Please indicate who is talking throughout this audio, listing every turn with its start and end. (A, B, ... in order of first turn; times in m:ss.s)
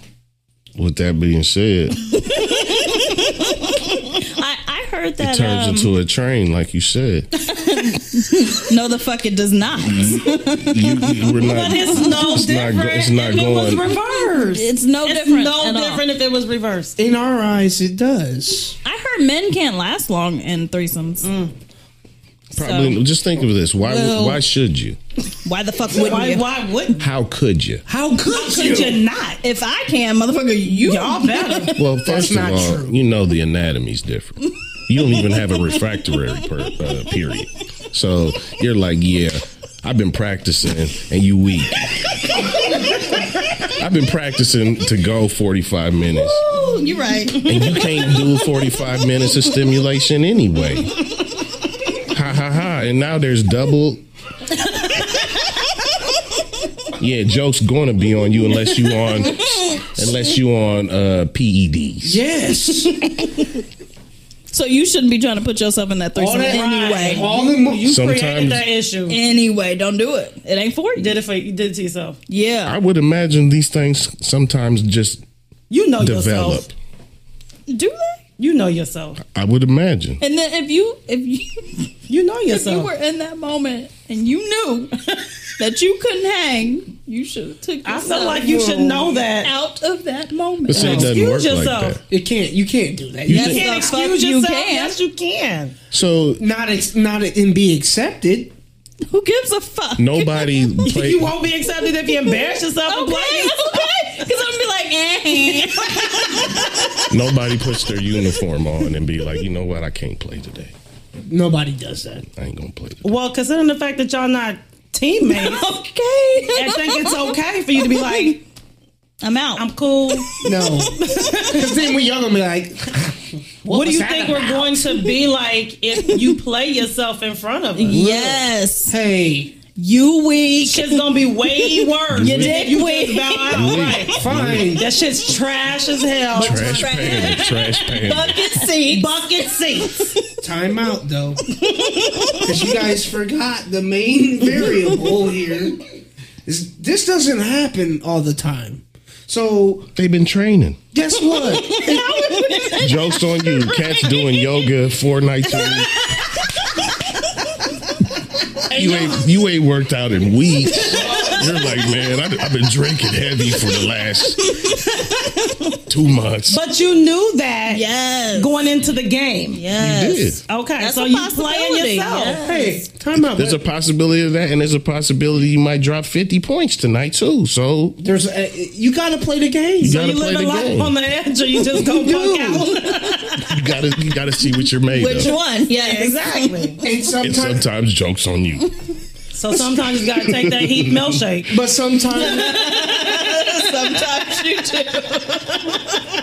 0:00.8-0:02.0 A
0:02.1-0:05.9 B
0:05.2-0:07.3 A
0:07.5-0:12.4 B
0:10.7-0:13.9 A
0:11.4-0:17.0 C
0:14.1-0:16.0 B
0:17.0-0:18.8 D
0:18.8-0:21.3 B
0:21.2-0:21.5 C
0:22.5-0:23.0 B
0:22.6-0:25.0 A
0:23.8-0:24.4 D
0:25.4-0:26.5 B
0:25.9-0:27.0 C
0:27.0-0:27.8 A
0:27.9-0:29.0 D
0:28.2-0:29.4 C
0:29.4-0:31.7 B
0:30.8-0:31.8 C
0:31.8-0:42.0 A
0:32.0-0:33.0 D
0:43.6-0:46.4 A
0:46.2-0:47.8 B
0:47.4-0:50.9 A
0:52.1-0:54.0 A
0:57.0-1:02.2 A
1:02.0-1:03.1 D
1:04.5-1:07.3 B
1:06.2-1:07.9 D
1:06.4-1:09.2 C
1:07.8-1:08.7 A
1:09.1-1:11.2 B
1:11.0-1:12.2 C
1:12.3-1:12.8 B
1:12.7-1:15.2 A
1:15.7-1:16.7 C
1:16.0-1:16.7 A
1:17.7-1:18.2 B
1:18.4-1:19.2 C
1:19.2-1:20.2 A
1:20.2-1:21.9 B
1:22.1-1:22.9 C
1:22.5-1:25.0 B
1:25.6-1:28.7 B
1:27.8-1:29.5 C
1:28.3-1:29.2 D
1:29.3-1:31.0 B
1:30.6-1:32.0 A
1:30.7-1:32.0 C
1:30.8-1:31.1 D
1:32.1-1:34.0 D
1:33.3-1:35.0 B
1:33.3-1:35.8 C
1:35.9-1:36.4 A
1:36.4-1:38.5 D
1:39.1-1:40.5 B
1:40.0-1:41.3 A
1:40.8-1:43.9 C
1:42.9-1:47.1 B
1:47.1-1:50.7 A
1:51.3-1:52.3 D
1:52.3-1:53.0 A
1:53.0-1:55.7 C
1:55.3-1:57.3 B
1:56.5-1:58.4 C
1:57.8-1:58.4 B
1:59.2-2:01.4 B
1:59.6-2:01.7 C
2:00.4-2:04.7 D
2:03.7-2:08.1 C
2:04.7-2:05.1 B
2:07.8-2:09.0 B
2:07.9-2:09.6 D
2:09.8-2:13.8 B
2:10.6-2:14.2 C
2:12.1-2:12.7 A
2:12.7-2:13.0 D
2:13.5-2:14.8 A
2:14.1-2:14.9 D
2:14.8-2:17.1 C
2:16.4-2:18.4 A
2:16.4-2:19.1 B
2:16.5-2:17.2 D
2:18.5-2:20.2 C
2:19.8-2:20.4 B
2:20.4-2:21.4 D
2:21.8-2:22.5 B
2:22.4-2:25.8 D
2:26.5-2:29.9 D
2:30.0-2:30.8 A
2:30.9-2:32.2 D
2:31.3-2:34.5 B
2:32.8-2:36.1 A
2:35.5-2:36.5 B
2:38.7-2:44.7 A
2:38.8-2:39.1 D
2:40.9-2:41.4 B
2:44.4-2:45.8 B
2:45.9-2:46.6 A
2:46.5-2:49.6 C
2:47.7-2:48.5 B
2:49.5-2:52.8 B
2:49.7-2:50.4 A
2:50.5-2:52.8 C
2:52.4-2:53.6 D
2:53.1-2:58.0 A
2:58.0-3:00.0 D
2:59.8-3:00.9 A
2:59.8-3:03.5 C
3:01.7-3:02.8 D
3:03.4-3:05.3 A
3:04.8-3:06.7 B
3:05.2-3:06.8 C
3:06.8-3:07.6 D
3:07.2-3:08.7 A
3:09.3-3:11.6 C
3:10.1-3:11.0 A
3:11.5-3:12.6 D
3:12.1-3:15.9 B
3:12.4-3:13.7 C